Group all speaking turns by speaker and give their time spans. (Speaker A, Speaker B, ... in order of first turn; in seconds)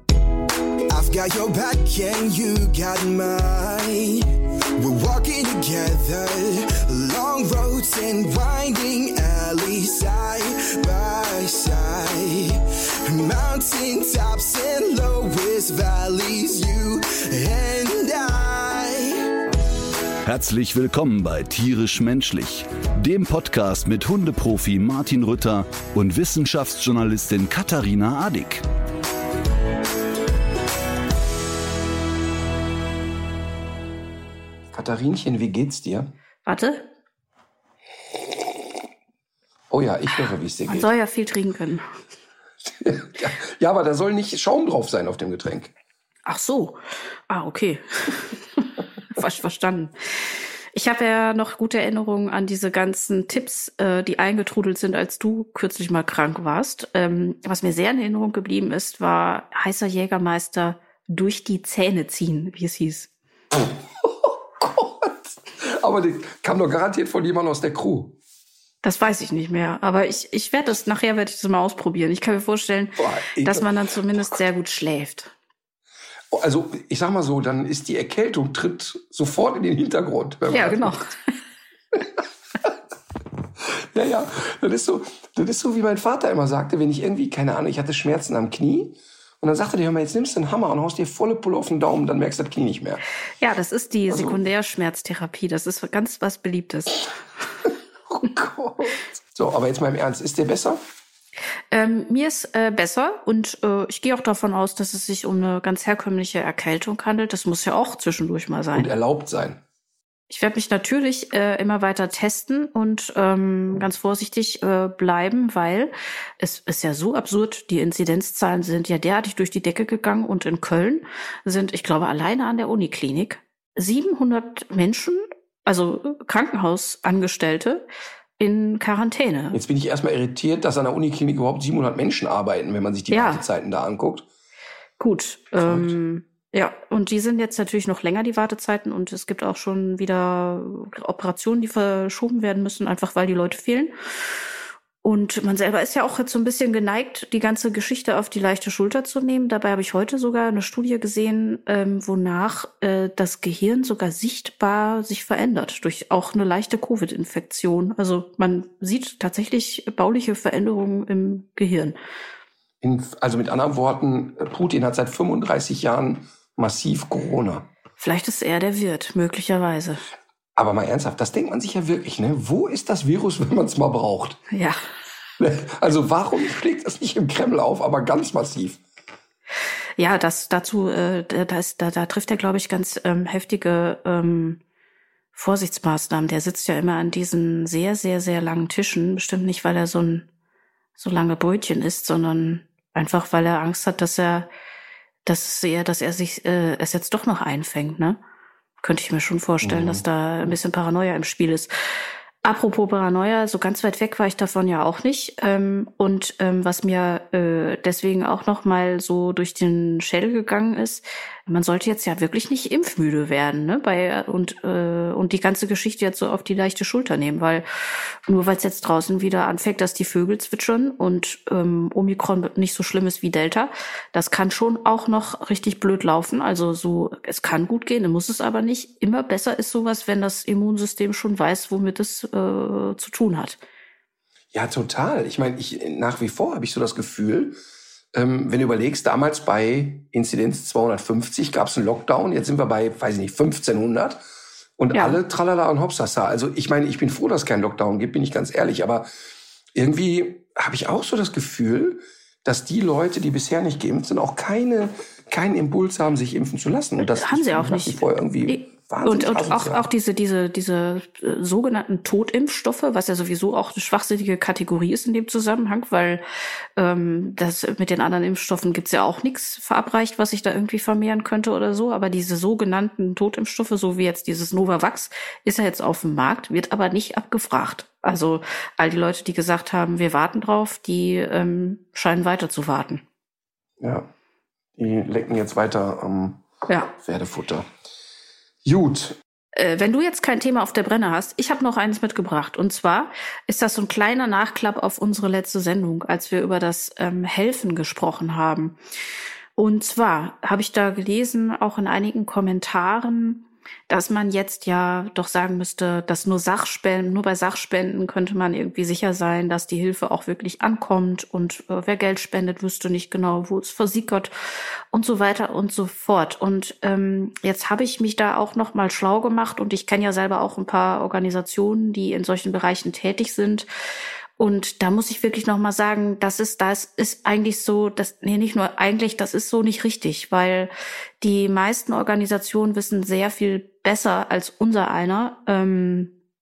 Speaker A: 0.9-4.2, 4.8-19.2
Speaker B: 20.2-28.6
Speaker C: 34.7-36.1, 39.7-40.9, 42.7-45.7, 63.5-68.2, 73.0-73.7, 76.3-81.0, 81.9-82.8, 83.6-93.0, 94.1-94.4, 98.1-100.8, 108.8-109.6, 129.5-134.3, 135.6-136.0, 162.8-167.7, 170.6-174.4, 175.4-178.8, 199.6-200.0, 234.5-237.6, 238.1-244.2, 244.8-249.1, 249.8-259.9, 283.8-284.1, 284.8-287.6, 288.6-289.2
Speaker D: 36.5-36.8, 40.7-41.9, 46.3-46.8, 47.3-63.1, 68.8-75.3, 80.5-81.2, 93.4-97.1, 101.7-108.9, 110.3-127.8, 128.4-129.6, 133.1-133.4, 135.0-144.4, 145.0-162.0, 168.0-170.0, 174.5-174.8, 180.0-184.6, 185.3-190.3, 191.0-194.5, 195.3-198.2, 198.8-201.7, 202.4-217.7, 218.3-233.6, 244.9-245.2, 257.0-266.2, 266.8-283.0, 289.6-298.8, 299.6-314.3, 314.9-323.7, 324.4-336.1